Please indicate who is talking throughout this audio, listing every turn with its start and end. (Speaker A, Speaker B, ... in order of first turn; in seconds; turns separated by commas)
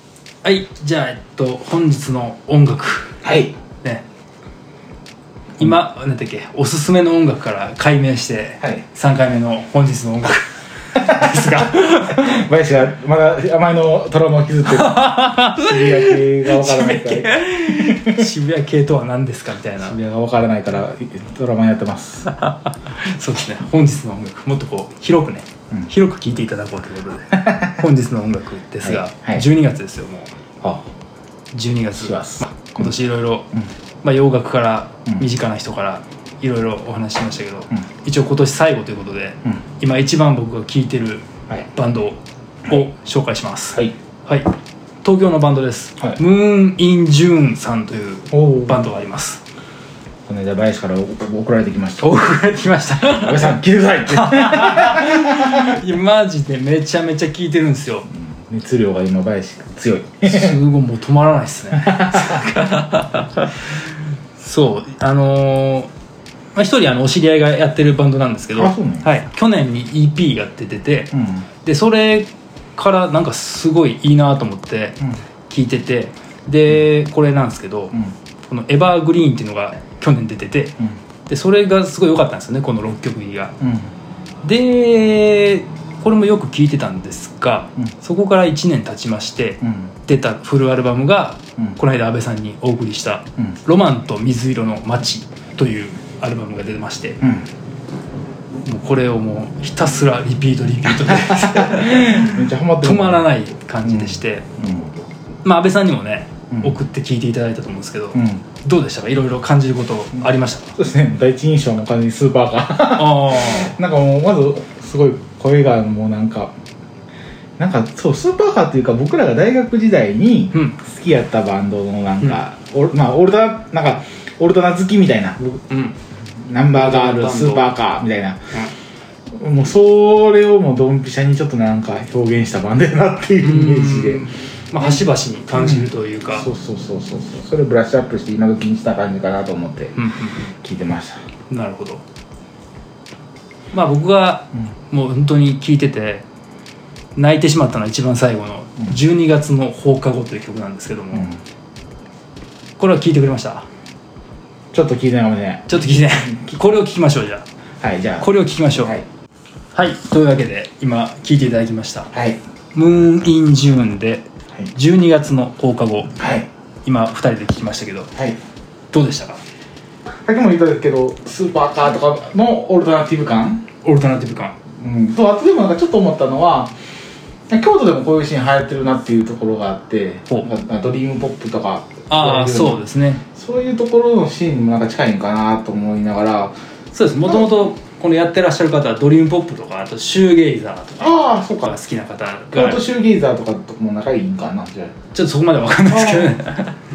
Speaker A: 0.4-3.2, Speaker B: 3.2-3.5, Speaker A: 5.6-12.4, Speaker B: 11.1-18.2, Speaker A: 14.7-20.0, Speaker B: 19.8-22.3, Speaker A: 22.3-30.3, Speaker B: 27.5-27.7, Speaker B: 28.8-29.5, Speaker A: 31.5-33.5, Speaker B: 31.9-33.0, Speaker A: 34.0-44.5, Speaker A: 45.0-49.4, Speaker B: 48.3-48.9, Speaker B: 50.3-52.1, Speaker A: 52.0-53.6, Speaker B: 53.0-55.8, Speaker A: 54.1-58.1, Speaker B: 58.1-60.6, Speaker A: 60.2-63.7, Speaker B: 61.8-62.4, Speaker A: 64.4-65.9, Speaker A: 66.5-75.0, Speaker B: 68.5-69.1, Speaker B: 71.1-71.5, Speaker A: 75.5-80.8, Speaker A: 81.3-83.5, Speaker B: 83.6-83.9, Speaker A: 84.4-97.2, Speaker B: 89.6-89.9, Speaker A: 98.7-104.5, Speaker B: 101.0-103.3, Speaker B: 103.8-104.9, Speaker A: 105.4-110.7, Speaker B: 108.1-108.4, Speaker B: 110.8-116.5, Speaker A: 112.9-113.7, Speaker B: 117.6-125.4, Speaker A: 120.5-120.8, Speaker A: 125.4-126.0, Speaker B: 126.5-128.4, Speaker A: 126.7-127.7, Speaker B: 129.3-134.3, Speaker A: 133.4-136.5, Speaker B: 134.8-140.0, Speaker A: 140.0-140.5, Speaker B: 140.6-141.2, Speaker A: 141.5-142.0, Speaker A: 143.7-146.2, Speaker A: 147.2-151.3, Speaker B: 151.1-151.4, Speaker A: 152.8-153.7, Speaker B: 154.7-156.6, Speaker A: 155.7-157.4, Speaker B: 157.8-159.1, Speaker A: 158.2-158.9, Speaker A: 159.8-162.1, Speaker B: 162.1-162.4, Speaker A: 162.8-166.1, Speaker B: 166.2-166.5, Speaker A: 166.8-168.1, Speaker A: 168.9-169.4, Speaker B: 170.3-173.6, Speaker A: 173.8-174.6, Speaker B: 174.8-176.7, Speaker B: 177.5-186.5, Speaker A: 182.1-183.2, Speaker A: 186.9-192.8, Speaker B: 187.2-187.7, Speaker B: 191.0-191.7, Speaker B: 192.5-194.9, Speaker A: 195.1-196.7, Speaker B: 195.8-196.4